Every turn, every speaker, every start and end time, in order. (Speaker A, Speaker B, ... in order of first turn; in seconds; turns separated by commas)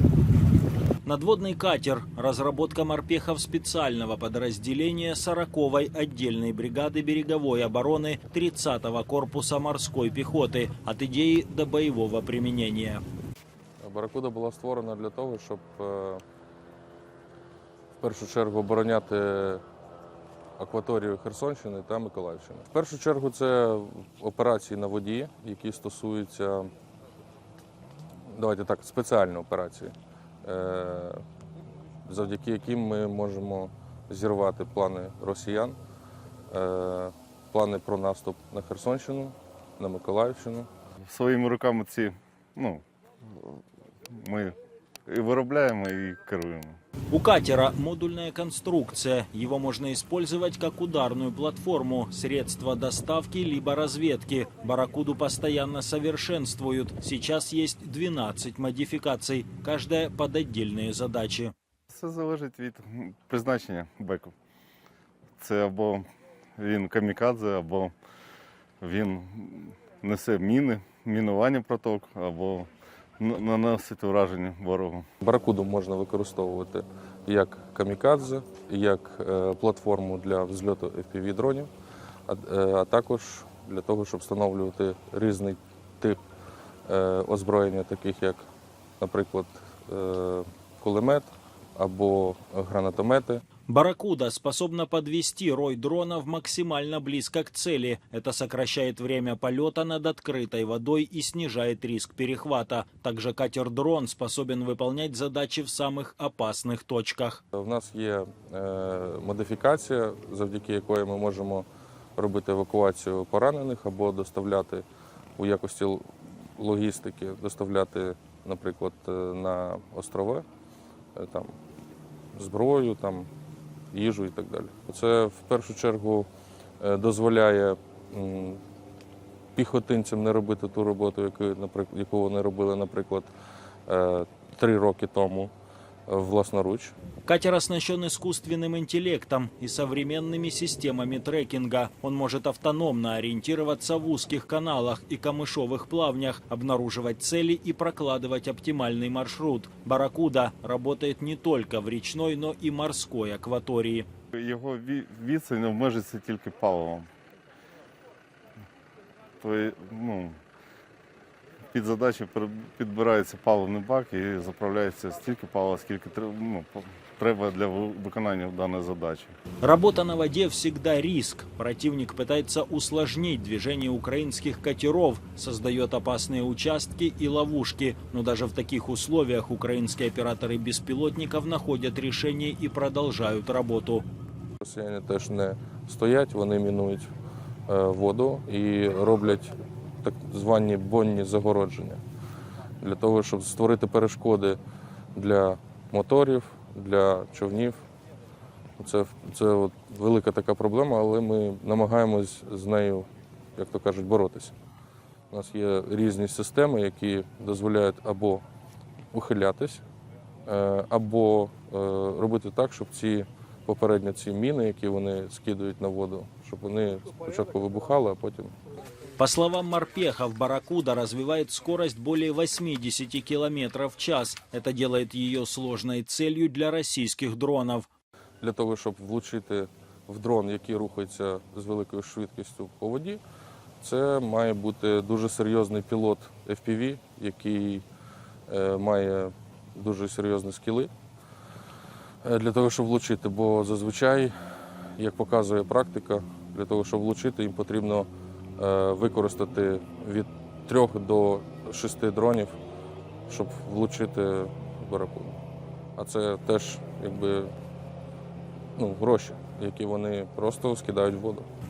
Speaker A: 1.0-13.0, Speaker B: 13.8-16.2, Speaker B: 18.0-19.6, Speaker B: 20.6-26.7, Speaker B: 28.3-31.2, Speaker B: 32.0-35.8, Speaker B: 36.5-40.7, Speaker C: 41.1-42.8, Speaker C: 43.3-46.8, Speaker A: 47.1-61.5, Speaker C: 61.9-64.3, Speaker C: 65.4-66.0, Speaker C: 66.6-67.9, Speaker C: 68.8-72.7, Speaker C: 73.2-75.1, Speaker B: 75.2-81.7, Speaker B: 82.3-86.2, Speaker B: 86.9-88.5, Speaker B: 89.0-93.4, Speaker A: 93.7-107.4, Speaker B: 107.5-111.7, Speaker B: 112.2-120.4, Speaker B: 121.1-121.5, Speaker B: 122.3-123.3, Speaker B: 123.9-126.3, Speaker B: 126.8-128.6, Speaker B: 129.5-133.3, Speaker B: 133.9-135.5, Speaker B: 136.1-136.9, Speaker A: 137.2-154.1, Speaker C: 154.3-157.1, Speaker C: 159.4-160.4, Speaker C: 161.7-169.3, Speaker A: 169.6-184.0, Speaker B: 184.6-187.1, Speaker B: 187.7-192.0, Speaker B: 192.8-194.6, Speaker B: 195.1-197.8, Speaker B: 198.8-204.5, Speaker B: 205.3-208.4, Speaker B: 209.1-209.8, Speaker B: 210.4-218.5, Speaker A: 219.2-227.9, Speaker B: 228.4-233.2, Speaker B: 233.8-237.8, Speaker B: 238.5-240.9, Speaker B: 242.2-244.3, Speaker B: 245.0-252.6, Speaker B: 253.3-255.4, Speaker B: 255.9-257.5, Speaker B: 258.8-261.4